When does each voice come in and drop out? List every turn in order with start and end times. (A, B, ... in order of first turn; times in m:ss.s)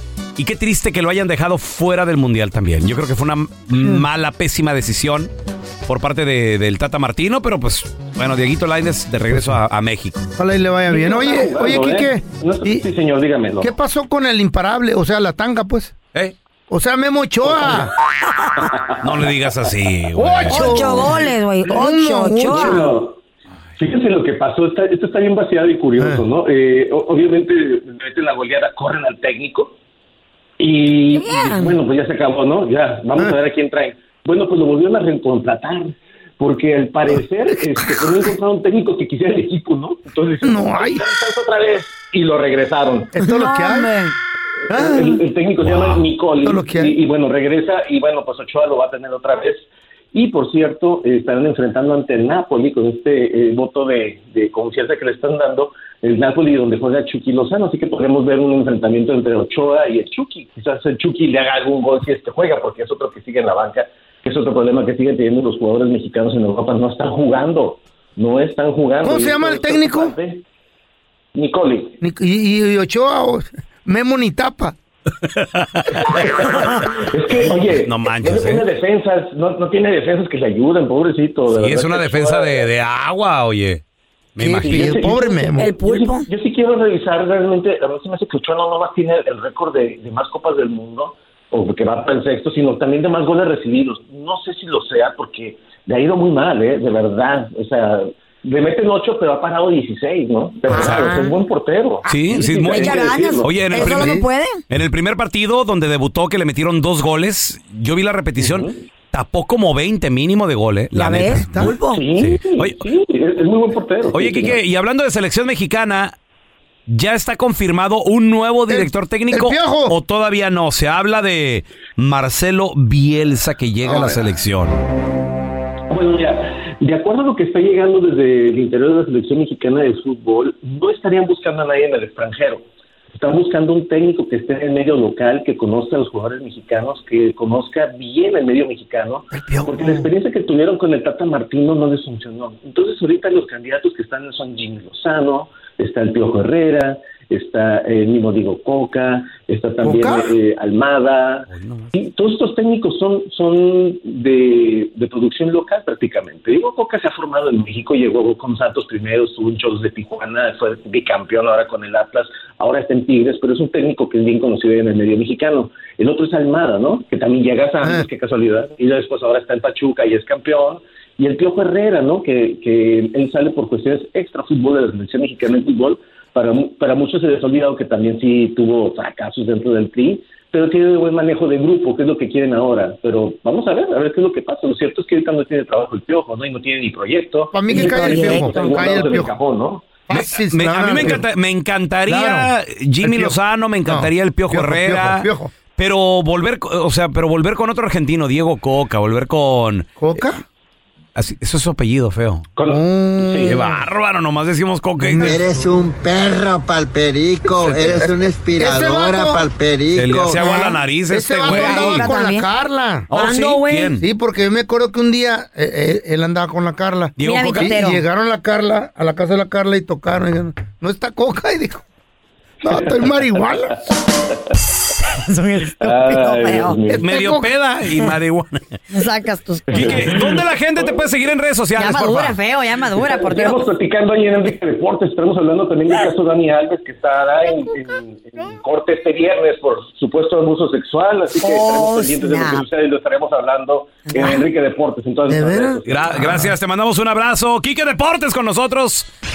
0:00.4-0:05.3 A
0:03.8-0:04.0 B
0:05.8-0:10.3 A
0:09.3-0:09.6 B
0:10.4-0:12.9 B
0:10.9-0:13.7 C
0:13.6-0:15.9 B
0:16.7-0:17.9 B
0:17.4-0:17.9 C
0:18.6-0:19.3 C
0:19.0-0:20.9 A
0:20.1-0:22.9 B
0:20.5-0:22.9 D
0:21.0-0:21.8 C
0:22.4-0:23.2 C
0:23.8-0:29.7 C
0:26.0-0:26.2 B
0:30.6-0:43.1 C
0:31.1-0:31.7 D
0:37.8-0:38.2 B
0:40.4-0:41.0 B
0:43.1-0:43.9 B
0:43.2-0:44.2 D
0:44.7-1:10.4 C
0:44.7-0:45.2 B
0:45.6-0:46.0 A
0:46.4-0:47.0 B
1:09.0-1:10.1 B
1:11.3-1:12.0 C
1:12.0-1:14.8 B
1:15.2-1:16.5 A
1:16.0-1:22.7 C
1:17.8-1:18.6 A
1:21.5-1:23.8 A
1:24.3-1:25.0 A
1:24.4-1:25.8 B
1:24.6-1:44.0 C
1:25.2-1:26.3 D
1:40.7-1:41.4 D
1:40.7-1:41.1 A
1:42.0-1:51.6 A
1:42.1-1:44.6 D
1:43.8-1:44.3 B
1:48.4-1:48.8 C
1:50.9-1:52.0 D
1:51.3-1:51.7 B
1:51.6-1:54.6 C
1:52.2-1:52.8 A
1:54.1-1:56.2 A
1:56.9-2:04.8 A
1:58.7-2:00.0 B
2:03.9-2:04.2 B
2:05.9-3:09.9 C
2:19.3-2:20.1 B
2:29.8-2:30.3 B
2:31.5-2:31.9 A
3:07.5-3:09.3 B
3:07.7-3:08.9 D
3:10.1-3:11.2 B
3:10.1-3:20.0 A
3:12.1-3:15.5 B
3:20.0-3:20.4 B
3:21.2-3:22.4 A
3:22.6-3:23.6 C
3:22.6-3:23.8 B
3:23.4-3:25.4 A
3:25.0-3:25.5 B
3:25.2-3:30.4 E
3:27.7-3:28.0 B
3:28.6-3:29.4 B
3:29.9-3:32.1 A
3:30.3-3:30.8 D
3:31.1-3:33.1 B
3:31.4-3:32.4 D
3:33.1-3:34.0 A
3:33.1-3:33.9 D
3:34.0-3:41.8 B
3:37.2-3:37.8 A
3:37.2-3:38.0 D
3:42.6-3:43.8 B
3:42.6-3:44.3 C
3:45.0-3:46.8 D
3:45.8-3:47.4 C
3:46.9-3:48.7 A
3:48.9-3:50.1 D
3:49.7-3:50.8 C
3:49.7-3:52.4 A
3:51.8-3:53.7 D
3:53.0-4:06.4 C
4:01.4-4:02.6 D
4:04.1-4:04.4 D
4:05.3-4:06.5 B
4:05.9-4:09.1 A